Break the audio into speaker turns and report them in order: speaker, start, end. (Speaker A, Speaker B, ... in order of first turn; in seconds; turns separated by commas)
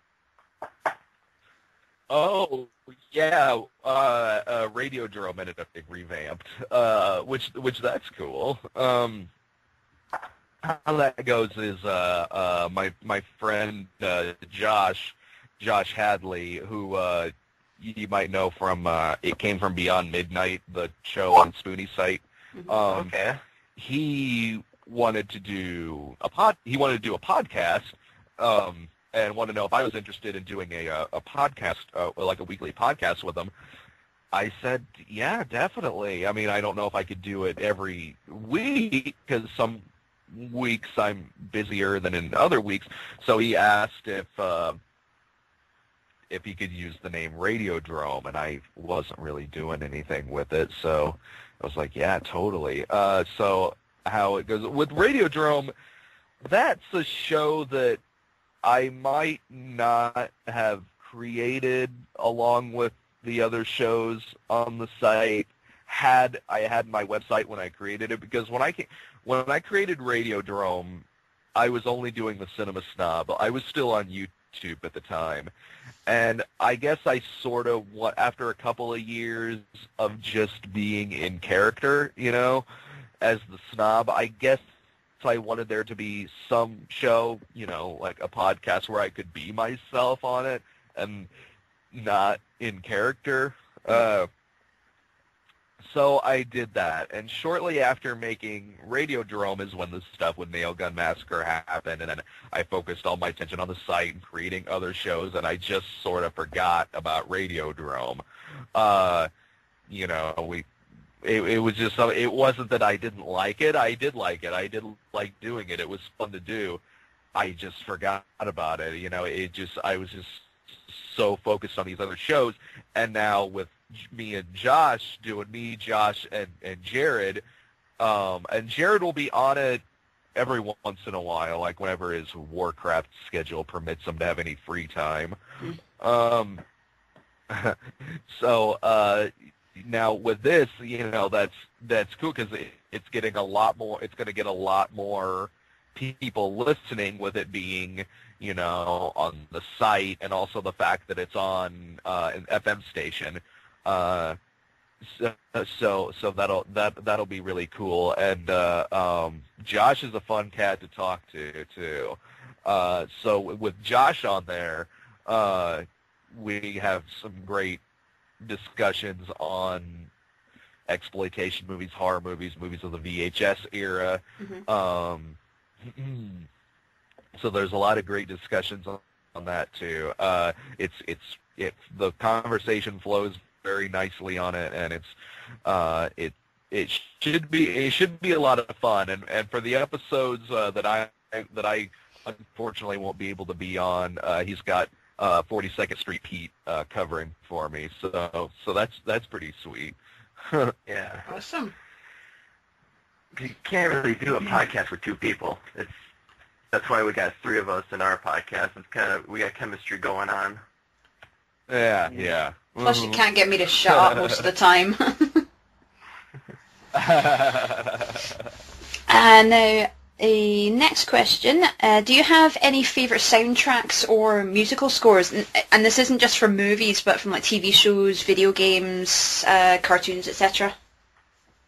Speaker A: 2.1-9.3, Speaker A: 10.6-23.1, Speaker B: 22.9-23.4, Speaker A: 23.8-33.5, Speaker A: 34.3-44.8, Speaker A: 46.3-55.7, Speaker A: 56.4-58.0, Speaker A: 58.6-75.5, Speaker A: 76.1-82.6, Speaker A: 83.2-84.6, Speaker A: 85.2-91.3, Speaker A: 91.9-94.3, Speaker A: 95.8-108.2, Speaker A: 108.7-109.3, Speaker A: 109.9-110.7, Speaker A: 111.2-116.8, Speaker A: 117.3-127.4, Speaker A: 128.0-129.8, Speaker A: 130.3-135.4, Speaker A: 136.0-136.6, Speaker A: 137.5-154.4, Speaker A: 155.0-167.8, Speaker A: 168.4-170.1, Speaker A: 170.9-176.5, Speaker A: 177.3-200.8, Speaker B: 200.9-201.3, Speaker C: 201.3-201.7, Speaker B: 203.3-205.9, Speaker B: 206.7-210.6, Speaker A: 211.7-213.2, Speaker C: 212.8-215.4, Speaker A: 213.9-214.4, Speaker A: 216.9-218.5, Speaker C: 219.1-230.7